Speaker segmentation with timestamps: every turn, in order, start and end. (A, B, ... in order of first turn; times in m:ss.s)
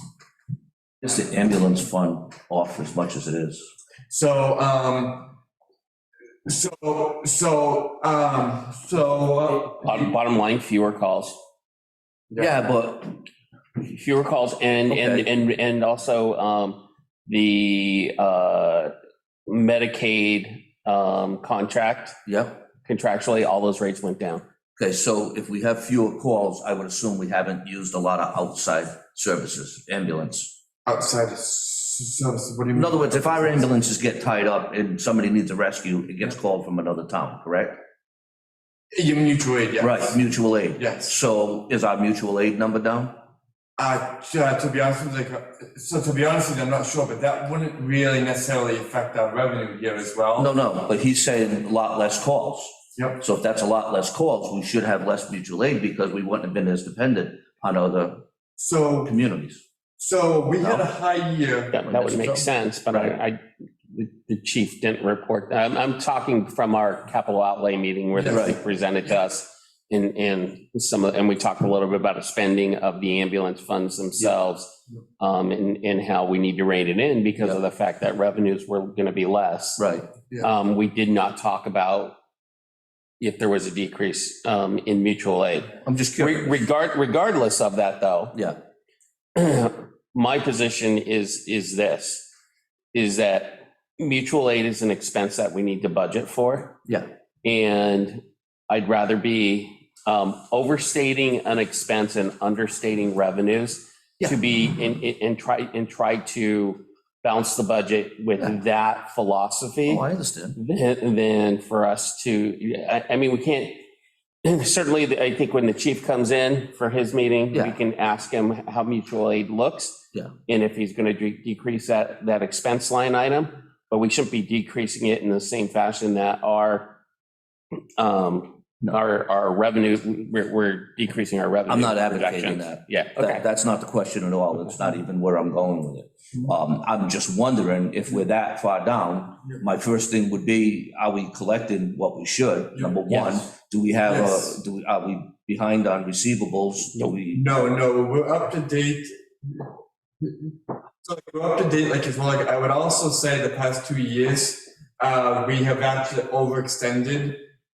0:01.0-0:03.6 A
0:04.1-0:05.4 B
0:06.4-0:10.2 B
0:09.8-0:11.4 C
0:12.4-0:13.2 A
0:13.8-0:18.9 C
0:14.9-0:15.3 A
0:19.5-0:22.2 C
0:22.2-0:22.6 A
0:22.8-0:24.4 C
0:24.8-0:30.5 A
0:30.8-0:33.7 B
0:32.7-0:37.8 A
0:38.9-0:40.2 B
0:39.8-0:43.1 A
0:40.8-0:41.1 B
0:43.8-0:50.5 B
0:50.4-0:58.2 A
0:52.9-0:53.2 B
0:58.6-0:59.1 B
0:59.0-0:59.6 A
1:00.0-1:01.8 B
1:01.7-1:19.8 C
1:01.8-1:03.2 A
1:08.2-1:08.5 B
1:08.2-1:08.6 A
1:19.8-1:20.1 A
1:20.4-1:22.2 C
1:23.2-1:28.3 C
1:25.8-1:26.6 A
1:29.3-1:32.3 C
1:32.9-1:36.7 C
1:37.4-1:50.0 C
1:49.8-1:50.6 A
1:50.6-1:53.8 C
1:54.4-2:07.0 C
2:08.0-2:13.4 C
2:11.7-2:27.4 A
2:23.1-2:23.4 C
2:24.0-2:24.6 B
2:27.3-2:29.6 B
2:30.2-2:30.5 B
2:31.0-2:37.4 B